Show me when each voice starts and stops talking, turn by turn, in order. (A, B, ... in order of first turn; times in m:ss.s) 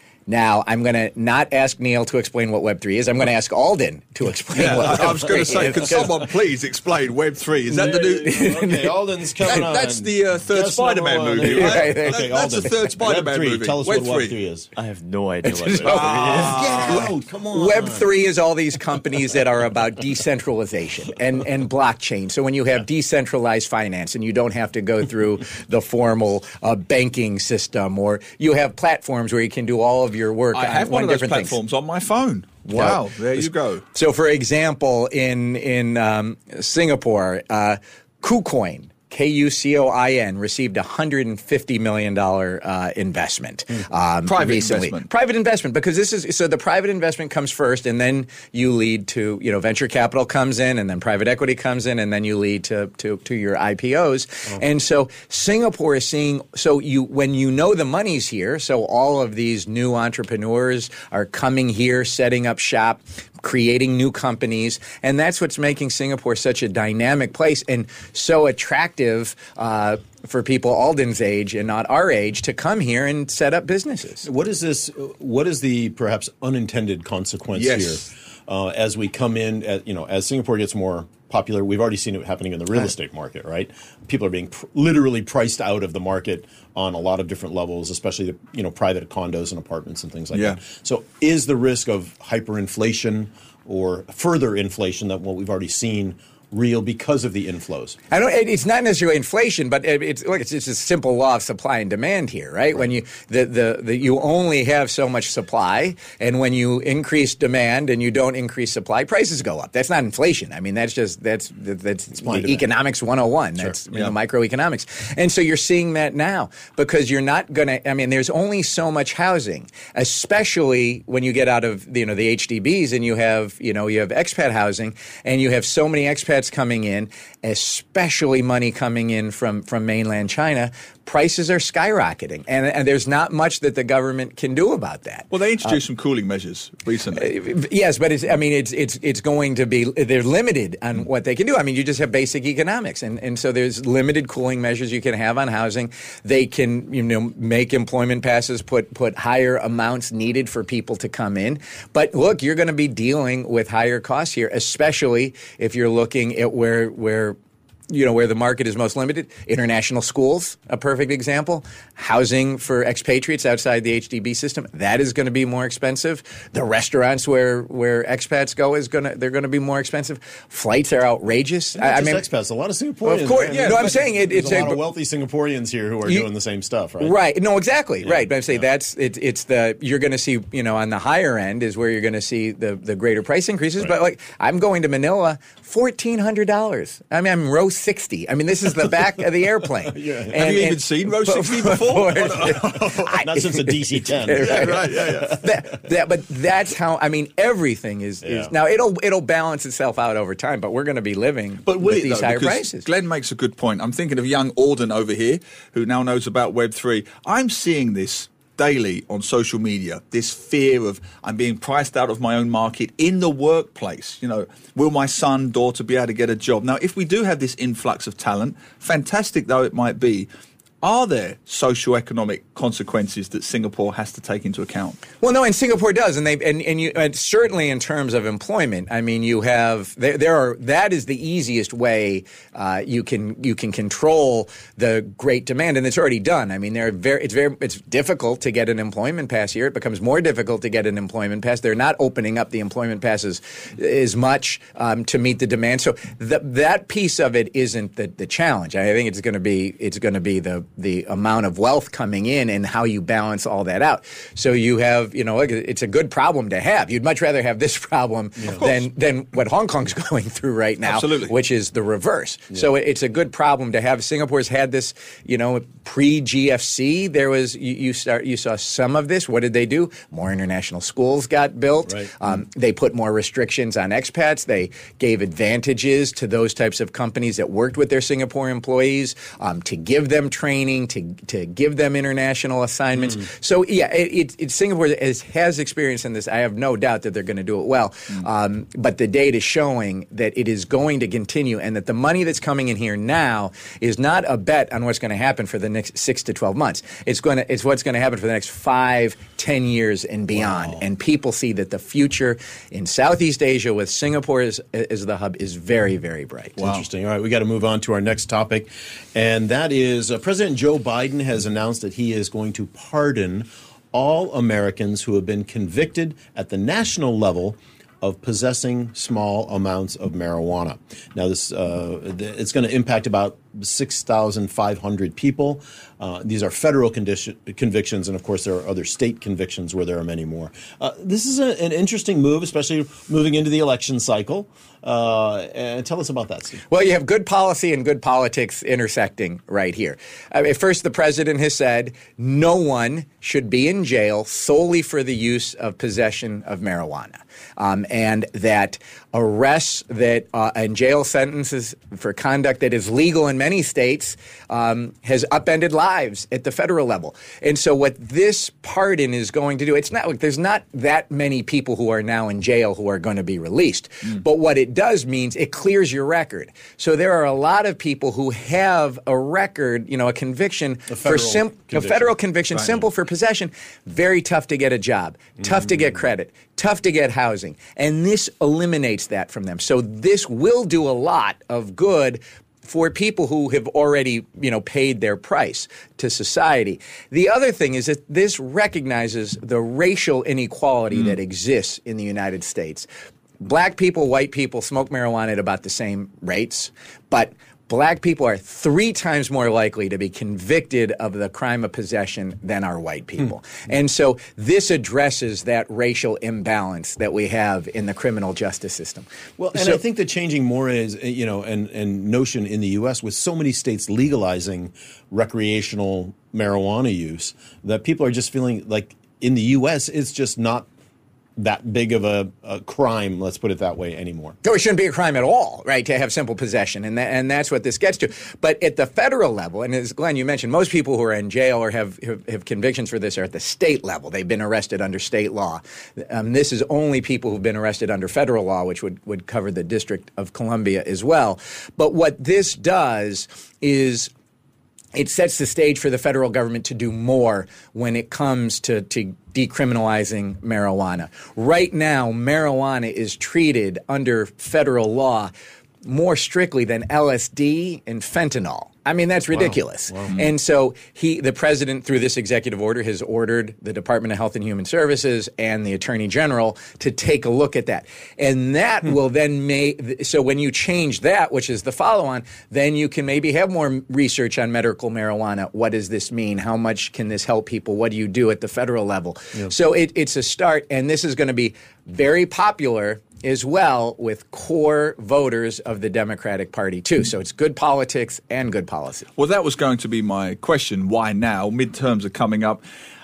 0:00.3-0:06.2 A
0:04.5-0:06.0 B
0:04.5-0:08.6 C
0:07.7-0:08.9 A
0:07.9-0:14.7 B
0:09.4-0:14.3 C
0:11.4-0:12.3 A
0:14.7-0:16.8 D
0:15.4-0:31.6 A
0:15.8-0:17.1 C
0:16.0-0:18.1 B
0:30.5-0:33.8 C
0:32.7-0:33.0 B
0:33.9-1:14.2 A
0:44.2-0:45.1 C
1:14.2-1:38.0 B
1:17.5-1:18.1 C
1:30.3-1:30.6 C
1:38.1-2:15.8 A
1:52.2-1:52.7 B
2:15.3-2:17.3 C
2:17.1-2:37.4 A
2:37.9-2:52.2 A
2:51.8-2:57.1 B
2:53.0-2:54.8 A
2:53.3-2:54.0 C
2:57.0-3:22.8 A
3:09.9-3:10.4 B
3:10.3-3:13.0 C
3:12.5-3:15.8 B
3:14.4-3:15.4 C
3:18.2-3:18.5 B
3:21.6-3:40.3 C
3:40.8-3:45.0 C
3:45.2-5:06.6 A
4:18.5-4:18.9 C
4:20.8-4:21.3 C
4:31.9-4:32.1 B
5:00.3-5:00.8 B
5:06.6-5:36.6 B
5:06.6-5:06.8 C
5:36.7-6:32.9 A
6:10.9-6:12.1 B
6:12.5-6:12.8 C
6:33.4-6:49.8 A
6:49.4-7:00.6 B
7:01.4-7:04.4 B
7:04.4-7:24.1 A
7:24.9-7:35.3 A
7:35.8-8:09.1 A
7:39.3-7:40.1 B
8:09.2-8:12.6 C